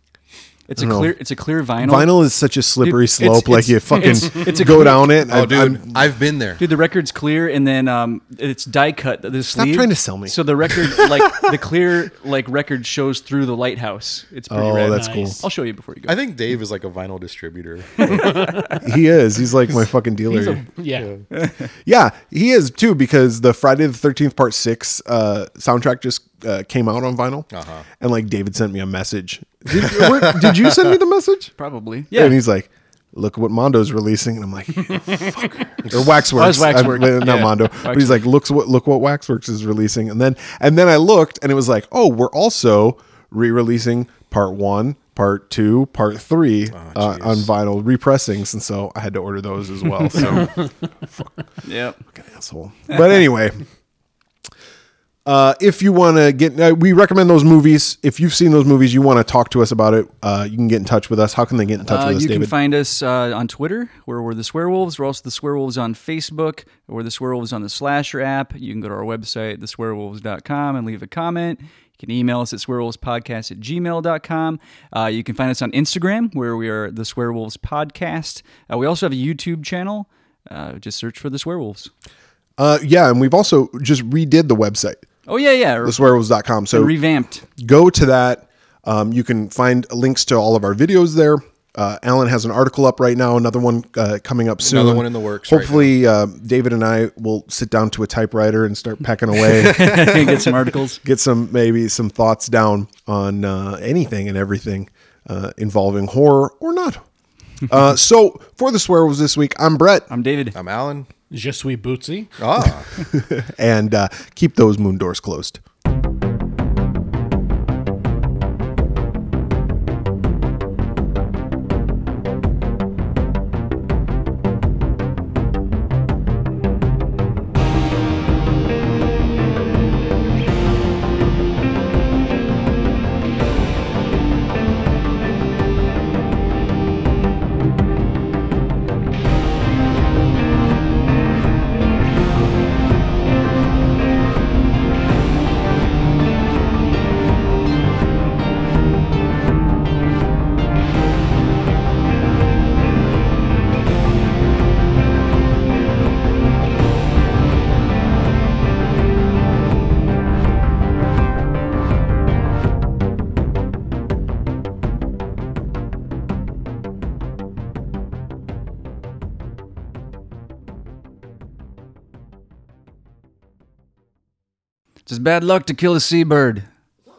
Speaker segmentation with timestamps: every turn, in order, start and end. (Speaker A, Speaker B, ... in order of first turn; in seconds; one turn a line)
Speaker A: 0.7-2.2
Speaker B: 0.8-1.2
Speaker B: 1.8-5.9
Speaker A: 2.8-5.2
Speaker C: 5.2-6.6
Speaker A: 6.6-16.1
Speaker B: 9.5-11.3
Speaker B: 14.5-15.4
Speaker D: 14.9-15.4
Speaker C: 16.1-18.5
Speaker A: 18.0-18.8
Speaker D: 18.1-18.7
Speaker B: 18.8-20.6
Speaker D: 20.3-21.1
Speaker C: 20.9-21.2
Speaker A: 21.3-21.7
Speaker B: 21.8-27.5
Speaker C: 27.5-27.9
Speaker B: 28.0-31.5
Speaker C: 29.8-30.8
Speaker A: 31.6-32.4
Speaker B: 32.1-51.3
Speaker A: 36.3-38.2
Speaker C: 46.7-47.5
Speaker A: 51.6-52.0
Speaker B: 52.1-53.6
Speaker B: 55.2-62.5
Speaker A: 61.8-81.9
Speaker B: 82.6-85.0
Speaker A: 85.3-86.0
Speaker B: 85.8-86.9
Speaker A: 86.7-87.4
Speaker B: 87.6-107.0
Speaker C: 94.6-95.9
Speaker A: 99.4-101.0
Speaker B: 107.7-110.1
Speaker A: 110.1-110.5
Speaker C: 110.5-111.1
Speaker D: 111.3-112.3
Speaker C: 112.4-112.9
Speaker B: 113.0-115.6
Speaker A: 175.1-176.7